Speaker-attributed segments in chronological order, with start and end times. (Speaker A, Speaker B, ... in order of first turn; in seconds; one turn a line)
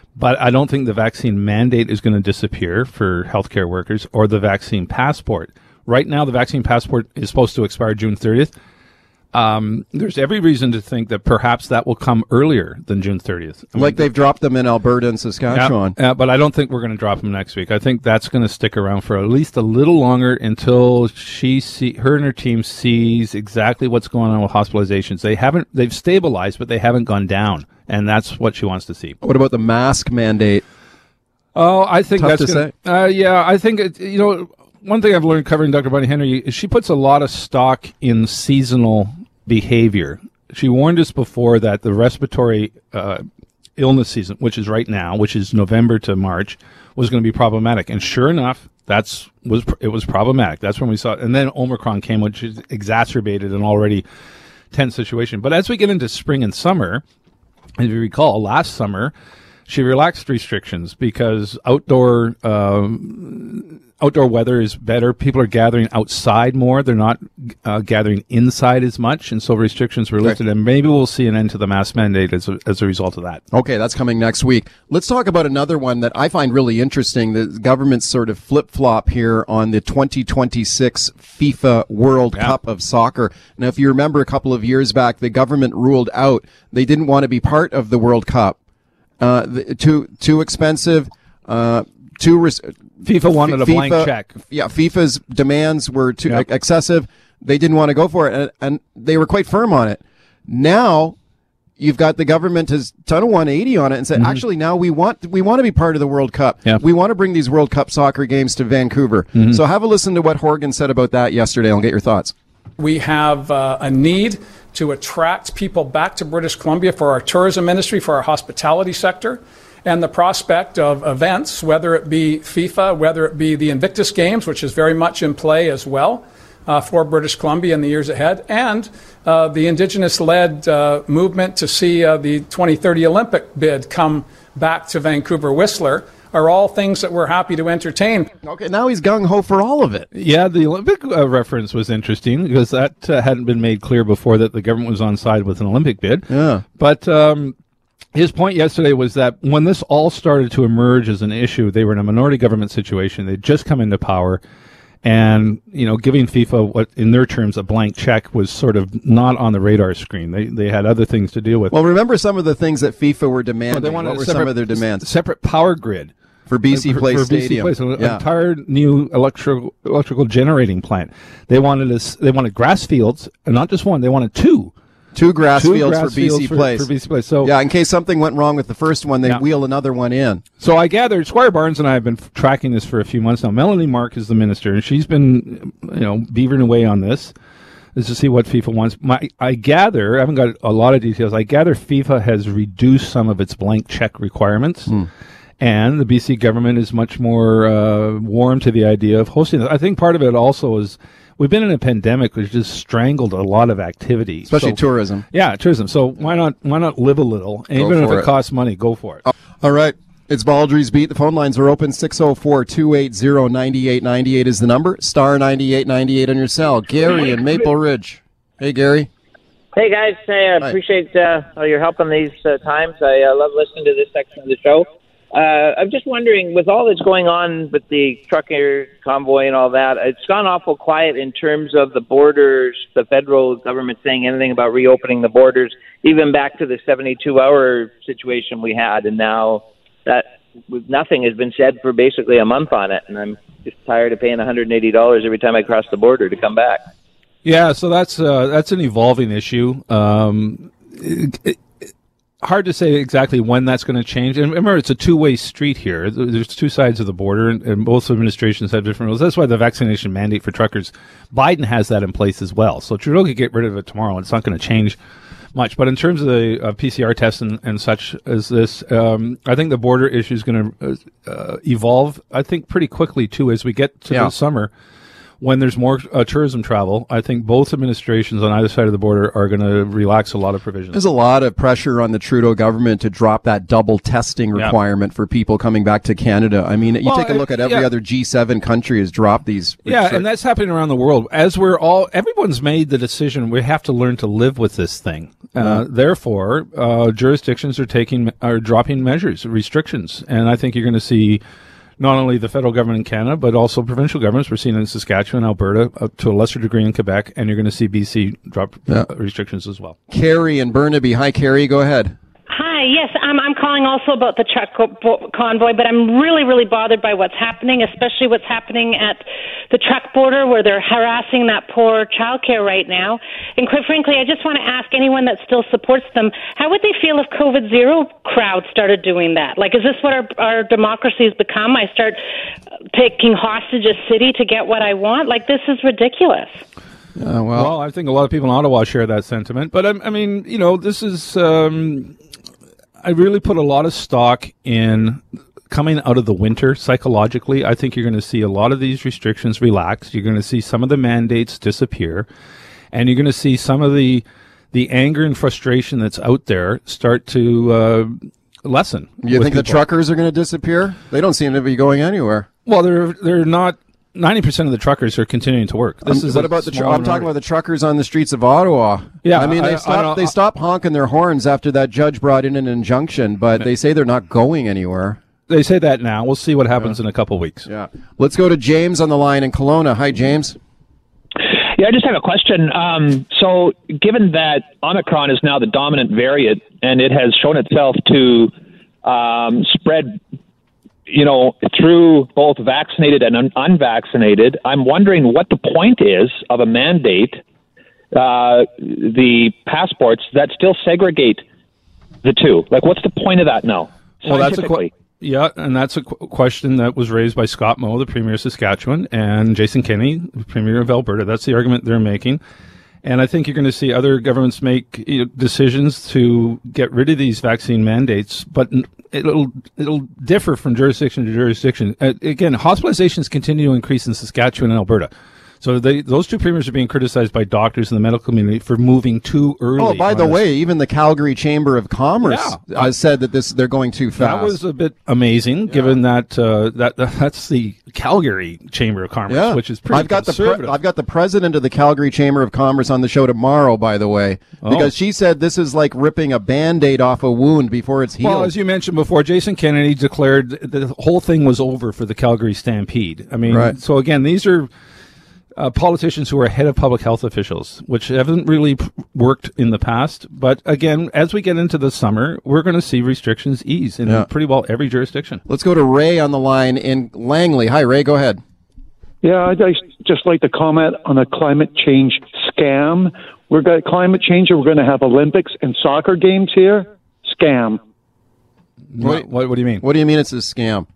Speaker A: 0.1-8.5
Speaker A: 9.3-14.0
Speaker B: 13.8-15.9
Speaker A: 15.5-29.1
Speaker B: 29.2-30.6
Speaker A: 31.5-43.2
Speaker B: 32.2-32.7
Speaker A: 43.8-54.0
Speaker A: 54.7-57.0
Speaker A: 57.8-59.1
Speaker A: 59.7-73.4
Speaker B: 73.5-88.6
Speaker B: 89.2-101.2
Speaker A: 93.0-94.3
Speaker B: 101.8-112.3
Speaker C: 112.8-138.3
Speaker B: 138.4-140.1
Speaker A: 140.1-146.2
Speaker B: 146.3-146.6
Speaker A: 146.8-147.5
Speaker A: 148.1-154.4
Speaker A: 155.0-161.7
Speaker B: 161.7-165.1
Speaker A: 163.7-166.1
Speaker B: 166.5-168.2
Speaker A: 166.7-174.7
Speaker B: 175.1-176.9
Speaker A: 175.6-177.5
Speaker B: 177.4-180.4
Speaker A: 180.6-187.3
Speaker A: 187.9-194.9
Speaker A: 195.6-204.8
Speaker B: 204.5-205.2
Speaker A: 205.3-209.2
Speaker B: 207.7-208.3
Speaker B: 209.2-219.1
Speaker D: 219.7-246.8
Speaker A: 247.4-251.6
Speaker A: 252.4-265.0
Speaker A: 265.5-274.7
Speaker A: 275.4-281.0
Speaker B: 280.9-290.2
Speaker A: 287.0-287.9
Speaker A: 289.9-301.4
Speaker A: 302.0-309.9
Speaker B: 310.1-312.1
Speaker E: 312.5-332.2
Speaker E: 332.9-336.5
Speaker B: 337.1-337.7
Speaker A: 337.5-342.1
Speaker A: 343.0-352.2
Speaker A: 352.9-358.1
Speaker A: 358.6-359.8
Speaker B: 359.2-362.5
Speaker A: 362.6-367.3
Speaker B: 366.0-375.2
Speaker A: 369.2-370.3
Speaker A: 375.5-377.7
Speaker B: 377.6-380.6
Speaker F: 381.7-388.5
Speaker F: 389.0-390.2
Speaker F: 391.1-397.4
Speaker F: 398.1-401.4
Speaker F: 402.2-404.9
Speaker A: 404.2-412.4
Speaker A: 413.0-425.1
Speaker A: 425.6-430.4
Speaker B: 429.8-434.6
Speaker A: 432.2-432.9
Speaker A: 434.2-440.7
Speaker B: 439.3-448.5
Speaker A: 444.6-444.9
Speaker A: 448.2-454.7
Speaker B: 453.5-453.7
Speaker A: 455.6-465.4
Speaker B: 465.5-468.4
Speaker G: 469.2-477.8
Speaker A: 478.9-479.8
Speaker B: 479.0-479.3
Speaker B: 479.8-480.9